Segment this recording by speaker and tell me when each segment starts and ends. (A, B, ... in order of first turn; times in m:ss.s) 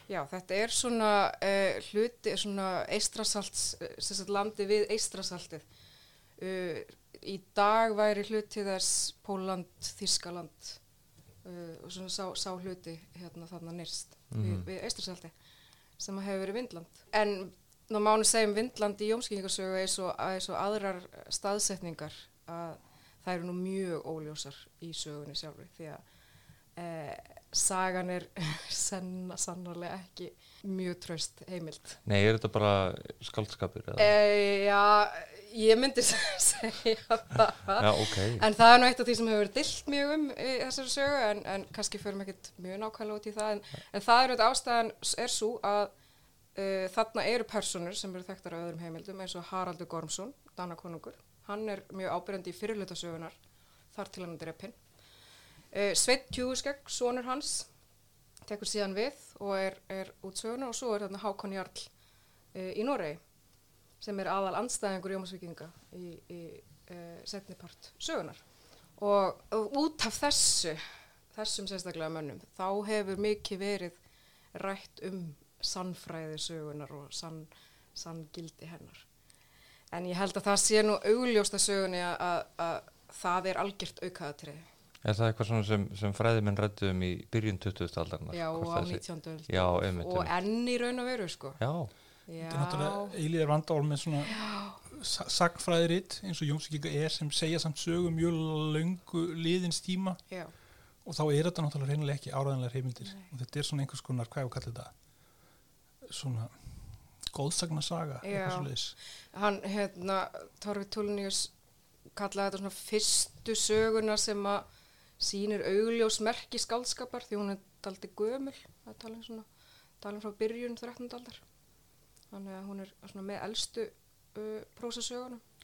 0:00.1-0:05.6 A
0:06.4-0:10.8 A
0:11.4-0:15.3 A
0:14.3-0:14.7 B
0:16.0-0:26.0 A
0:26.8-0:32.0 A
0:32.1-0:34.1 B
0:34.0-0:45.9 A
0:37.8-0:38.5 B
0:46.5-0:53.4 A
0:53.9-0:54.8 A
0:55.7-0:57.7 A
0:58.5-1:01.9 A
1:02.5-1:03.2 A
1:04.0-1:08.4 A
1:09.0-1:10.8 A
1:11.3-1:14.0 A
1:14.5-1:19.0 A
1:19.9-1:24.7 A
1:25.0-1:30.3 B
1:28.3-1:31.6 A
1:31.6-1:31.9 B
1:32.3-1:33.2 A
1:32.4-1:34.3 C
1:34.2-1:34.8 A
1:34.8-1:40.2 C
1:41.0-1:44.9 C
1:46.0-1:46.5 C
1:47.3-1:49.0 C
1:48.2-1:48.7 A
1:49.3-1:51.5 A
1:52.2-1:54.7 A
1:55.2-1:59.5 A
2:00.0-2:01.4 A
2:02.3-2:05.4 A